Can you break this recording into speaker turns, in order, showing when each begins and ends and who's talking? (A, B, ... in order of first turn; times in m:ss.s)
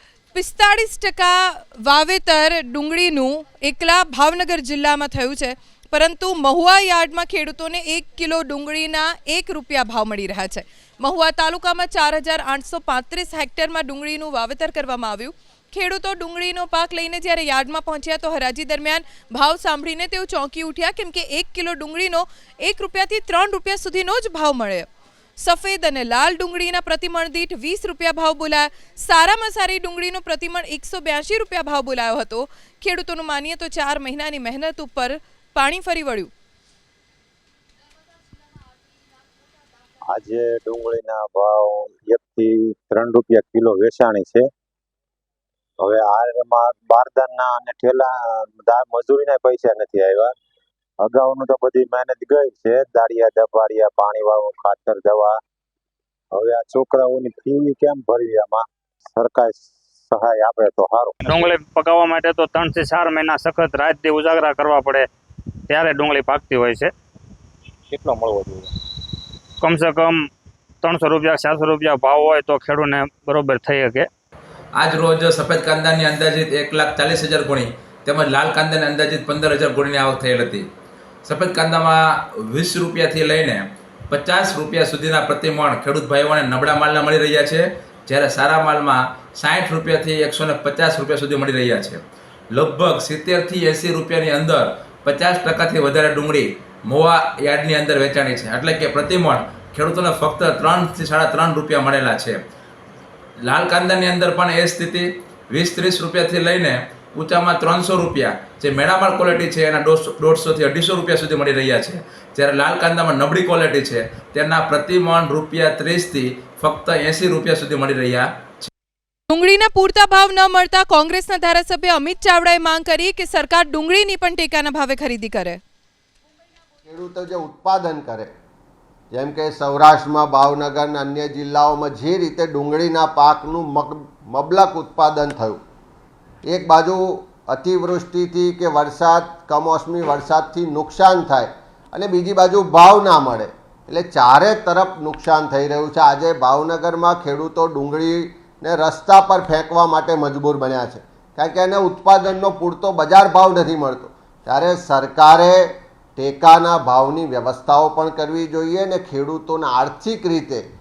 0:00.3-0:24.9 A
0:25.4-0:36.3 A
0:40.1-0:44.5 B
0:45.8-0:50.3 B
0:51.0-0:55.4 B
0:56.3-1:01.4 B
1:01.2-1:05.1 C
1:05.7-1:06.9 C
1:07.9-1:08.7 B
1:09.6-1:10.3 C
1:10.8-1:14.1 C
1:14.8-1:20.7 D
1:21.3-1:32.0 D
1:32.5-1:42.4 D
1:43.5-1:58.7 D
1:59.3-2:05.6 A
2:06.9-2:08.3 E
2:09.1-2:15.6 E
2:16.5-2:40.6 E